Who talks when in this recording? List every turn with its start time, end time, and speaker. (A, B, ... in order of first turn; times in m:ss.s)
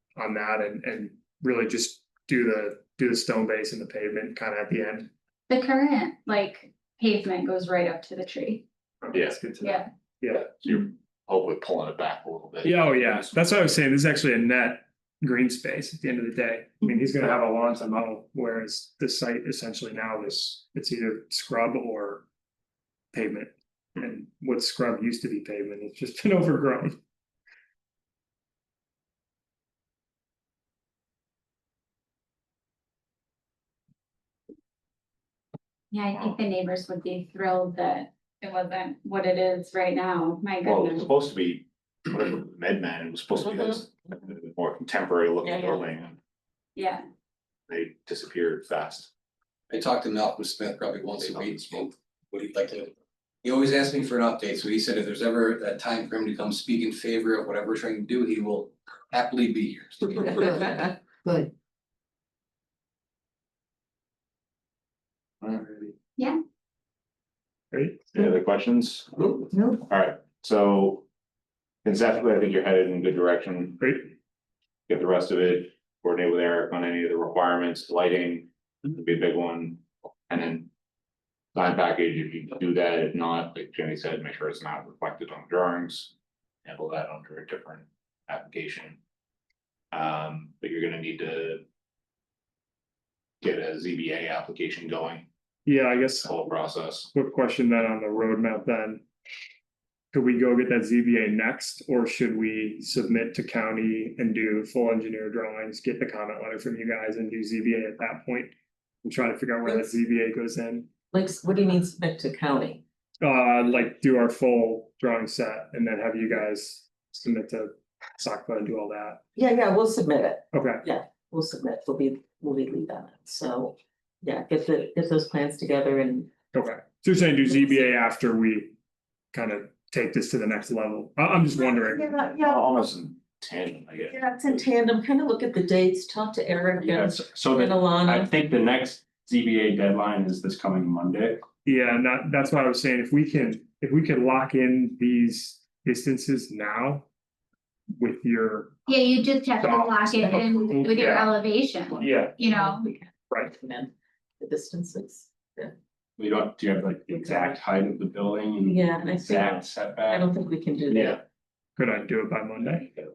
0:00.2-0:05.1 A
0:05.5-0:08.6 B
0:09.0-0:10.5 A
0:09.1-0:09.4 C
0:09.6-0:09.9 B
0:10.6-0:13.4 C
0:12.6-0:22.3 A
0:23.1-0:27.0 A
0:35.9-0:41.1 B
0:40.6-0:46.2 C
0:43.5-0:43.8 D
0:45.4-0:45.8 D
0:46.8-0:47.0 B
0:47.7-0:49.1 C
0:49.7-0:52.9 E
0:51.2-0:51.8 C
0:53.4-1:00.8 E
1:00.4-1:00.7 D
1:05.5-1:05.9 A
1:07.7-1:08.1 A
1:08.1-1:11.1 C
1:11.8-1:14.0 C
1:13.8-1:14.1 A
1:14.9-1:20.7 C
1:21.6-1:26.1 C
1:26.6-1:29.0 C
1:29.9-1:31.6 C
1:33.4-1:35.3 C
1:35.6-1:36.4 A
1:36.2-1:37.1 C
1:37.1-1:39.0 A
1:40.1-1:50.9 A
1:51.1-1:52.8 D
1:53.2-1:59.2 A
1:59.4-2:06.3 D
2:00.5-2:00.8 A
2:06.5-2:08.8 A
2:09.3-2:12.1 A
2:11.8-2:12.6 D
2:12.4-2:14.5 C
2:14.1-2:18.3 D
2:16.8-2:21.4 F
2:21.6-2:27.1 A
2:28.0-2:28.8 A
2:28.9-2:32.9 B
2:29.6-2:31.4 A
2:30.4-2:30.9 D
2:31.9-2:32.4 A
2:32.5-2:35.7 D
2:36.2-2:40.3 F
2:37.1-2:37.5 D
2:38.6-2:41.2 D
2:40.9-2:41.2 C
2:41.8-2:43.0 A